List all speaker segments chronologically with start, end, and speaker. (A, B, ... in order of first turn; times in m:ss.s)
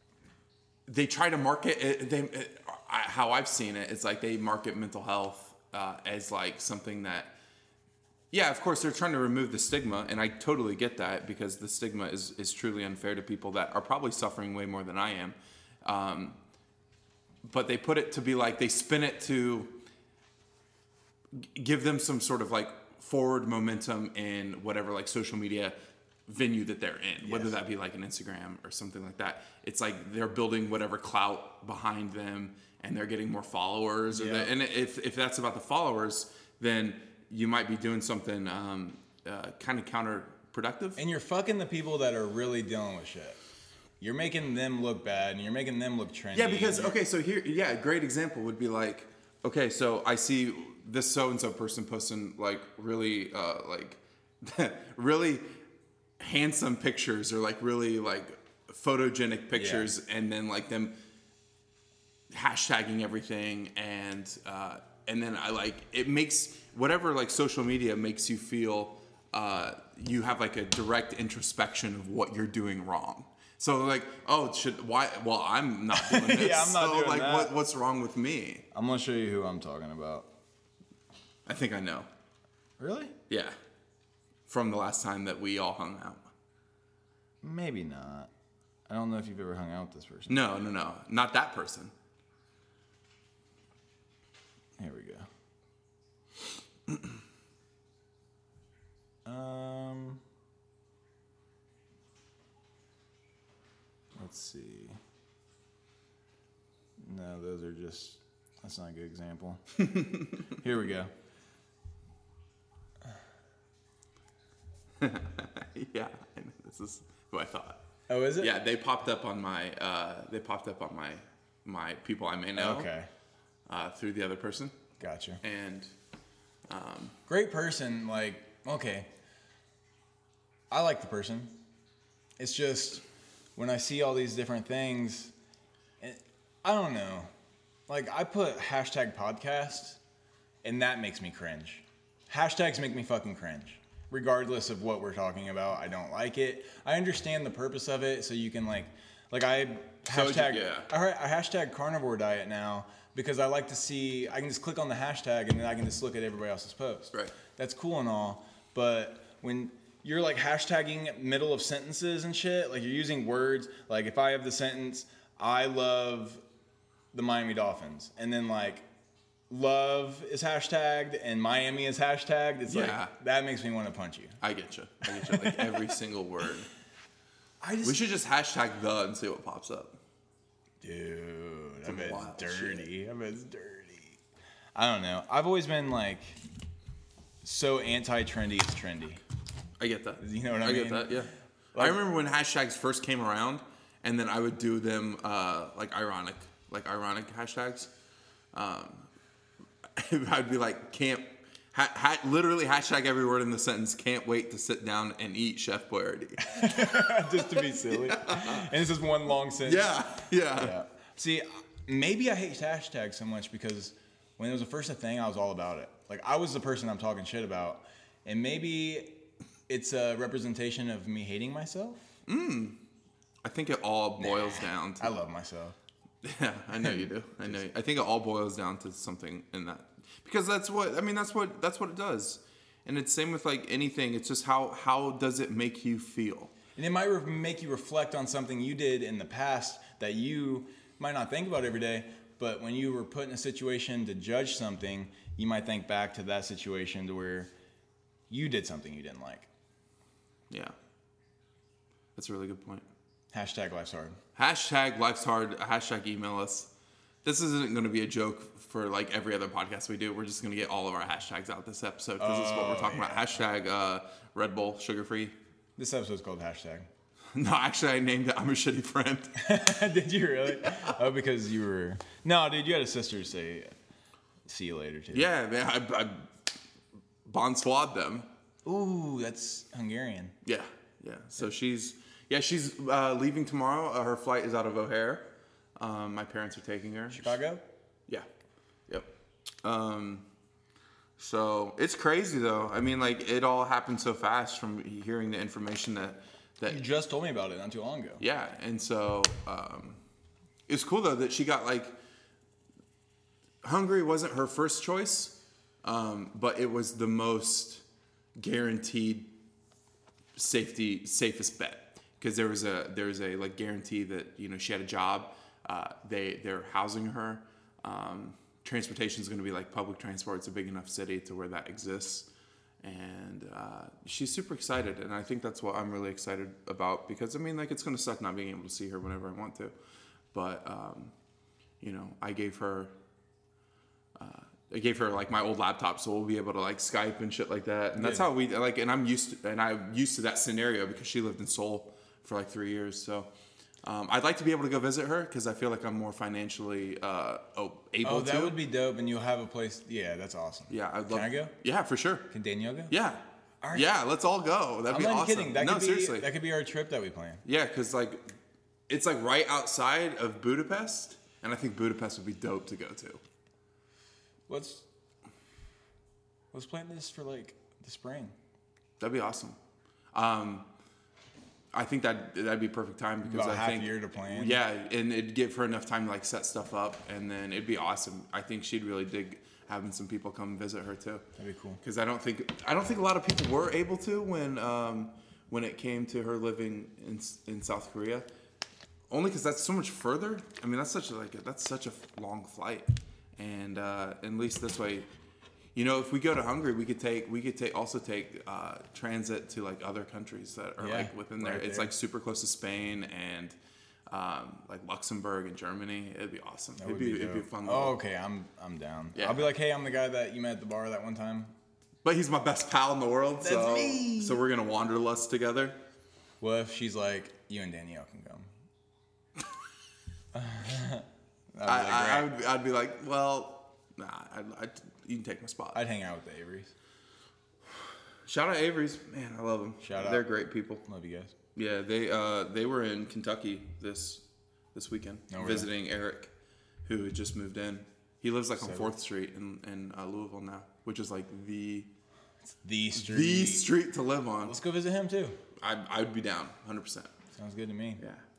0:00.9-0:07.3 A
0:08.3-0:16.4 A
0:17.4-0:19.8 A
0:21.3-0:41.0 A
0:27.2-0:27.6 B
0:34.1-0:34.5 B
0:41.0-0:43.4 B
0:44.0-0:47.0 B
0:46.3-0:55.6 A
0:56.2-1:01.0 A
0:59.5-0:59.9 B
1:02.3-1:18.7 A
1:15.9-1:17.5 B
1:18.7-1:20.3 B
1:21.5-1:22.1 A
1:22.8-1:23.1 B
1:23.3-1:23.6 A
1:24.5-1:26.3 A
1:27.4-1:28.3 B
1:28.9-1:30.4 B
1:30.3-1:31.9 A
1:34.8-1:35.3 B
1:39.2-1:40.2 B
1:44.2-1:45.0 B
1:47.0-1:49.8 B
1:49.9-1:50.2 A
1:50.5-1:51.1 B
1:55.0-1:57.8 A
1:58.1-1:58.5 B
1:58.4-2:02.9 A
2:02.6-2:03.1 B
2:03.7-2:04.8 A
2:05.0-2:05.4 B
2:05.4-2:05.9 A
2:06.7-2:07.2 A
2:07.3-2:09.1 B
2:10.7-2:11.5 B
2:12.4-2:13.0 B
2:13.6-2:15.3 B
2:16.0-2:17.3 B
2:17.9-2:20.0 B
2:20.6-2:46.4 B
2:30.1-2:30.9 A
2:47.1-2:48.9 B
2:49.5-2:54.4 B
2:52.7-2:53.1 A
2:54.4-2:56.7 A
2:55.1-2:55.8 B
2:57.6-2:58.0 B
2:57.8-3:00.0 A
3:00.8-3:04.2 B
3:01.8-3:02.9 A
3:04.8-3:06.4 B
3:07.4-3:09.2 B
3:09.8-3:17.9 A
3:10.2-3:12.0 B
3:18.5-3:19.1 A
3:20.0-3:28.7 A
3:26.4-3:42.2 B
3:29.6-3:30.8 A
3:42.3-3:42.8 A
3:43.4-3:45.2 A
3:44.2-3:45.8 B
3:46.2-3:56.5 A
3:46.8-3:47.6 B
3:56.8-4:07.5 B
4:08.3-4:09.5 B
4:10.5-4:10.8 A
4:12.2-4:12.9 A
4:13.3-4:14.2 B
4:14.4-4:16.7 A
4:17.2-4:25.4 A
4:22.2-4:23.3 B
4:25.8-4:26.9 B
4:27.3-4:29.6 A
4:29.4-4:33.7 B
4:30.6-4:30.9 A
4:34.5-4:35.3 B
4:35.1-4:36.3 A
4:37.2-4:38.3 A
4:38.6-4:40.4 B
4:40.4-4:47.4 A
4:47.1-4:47.6 B
4:49.6-4:50.3 A
4:51.2-4:56.8 A
4:56.7-4:58.2 B
4:58.2-5:00.0 A
5:00.7-5:02.0 A
5:03.6-5:07.8 A
5:08.4-5:09.3 A
5:10.4-5:22.3 A
5:22.8-5:29.8 A
5:30.3-5:31.1 A
5:31.8-5:32.9 A
5:34.2-5:43.3 A
5:38.0-5:38.3 B
5:43.8-5:48.6 A
5:48.0-5:51.5 B
5:50.7-5:52.3 A
5:52.3-5:52.9 B
5:52.9-5:56.3 A
5:53.6-5:53.9 B
5:54.9-5:57.4 B
5:57.4-5:58.3 A
5:58.9-6:03.2 A
6:04.5-6:04.9 B
6:06.5-6:08.4 B
6:09.0-6:09.6 A
6:10.1-6:10.7 A
6:11.7-6:21.2 A
6:13.2-6:14.6 B
6:21.4-6:21.8 B
6:21.8-6:28.3 A
6:29.1-6:35.1 A
6:35.8-6:43.6 A
6:40.8-6:41.9 B
6:44.1-6:48.0 A
6:46.8-6:51.5 B
6:49.2-6:49.5 A
6:52.0-6:55.8 A
6:53.4-6:54.4 B
6:56.4-6:58.5 B
7:00.3-7:02.3 B
7:01.6-7:05.8 A
7:05.7-7:06.7 B
7:07.7-7:10.8 A
7:09.8-7:10.3 B
7:10.8-7:11.3 B
7:11.6-7:16.3 A
7:15.3-7:15.7 B
7:16.8-7:21.9 A
7:18.6-7:18.9 B
7:22.6-7:23.7 B
7:23.0-7:24.6 A
7:24.4-7:25.4 B
7:25.6-7:27.1 A
7:27.4-7:28.0 B
7:28.0-7:28.2 A